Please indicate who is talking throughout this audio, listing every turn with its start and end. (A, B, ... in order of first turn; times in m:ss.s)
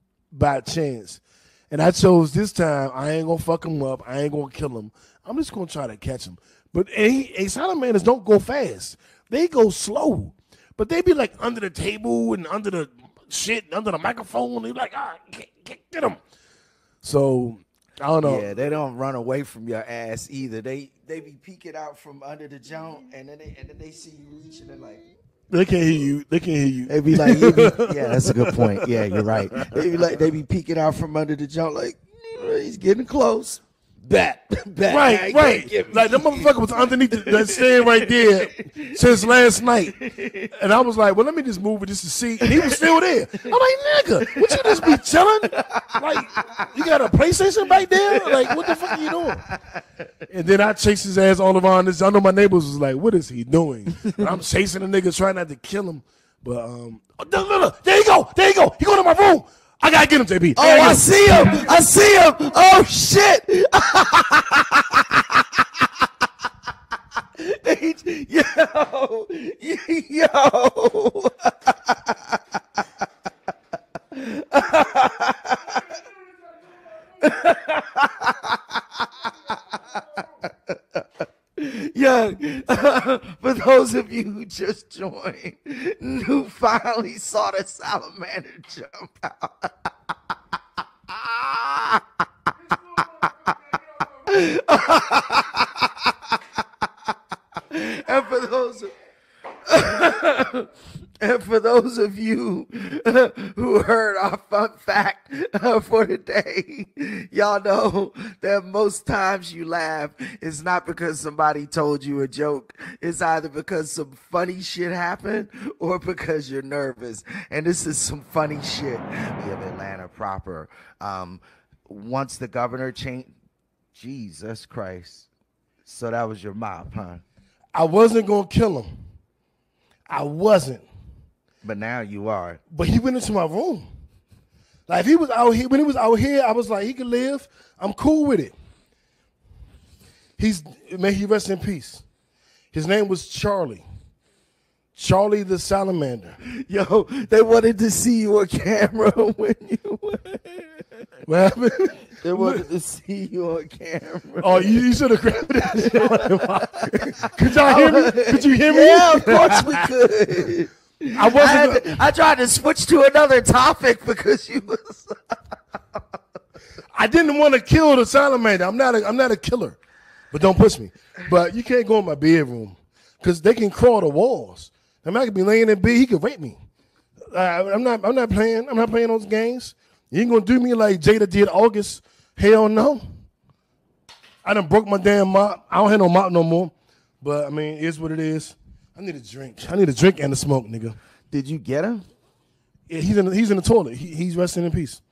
0:00.3-0:16.2 A
0:17.0-0:18.5 A
0:18.2-0:25.0 B
0:25.5-0:29.8 A
0:26.9-0:40.5 B
0:34.9-0:40.0 A
0:40.5-0:49.4 A
0:42.4-0:42.8 B
0:44.2-0:46.7 B
0:47.8-0:49.8 B
0:50.3-1:01.1 A
1:00.6-1:05.9 B
1:07.4-1:12.6 B
1:14.1-1:16.0 B
1:17.2-1:21.0 B
1:21.6-1:29.7 B
1:31.1-1:32.0 B
1:32.6-1:36.4 B
1:37.6-1:38.9 B
1:39.6-2:03.3 B
2:03.9-2:05.3 B
2:05.8-2:07.2 B
2:07.7-2:08.9 A
2:10.1-2:10.8 A
2:11.6-2:12.6 B
2:12.7-2:13.8 A
2:14.9-2:18.5 A
2:20.4-2:22.0 A
2:22.7-2:23.8 A
2:24.9-2:26.4 A
2:26.4-2:30.9 B
2:31.2-2:32.6 A
2:32.2-2:45.2 B
2:34.4-2:39.9 A
2:41.1-2:41.9 A
2:46.9-2:49.8 A
2:50.3-2:56.6 A
2:57.3-3:03.0 A
3:04.4-3:11.0 A
3:11.3-3:12.0 B
3:12.9-3:15.0 A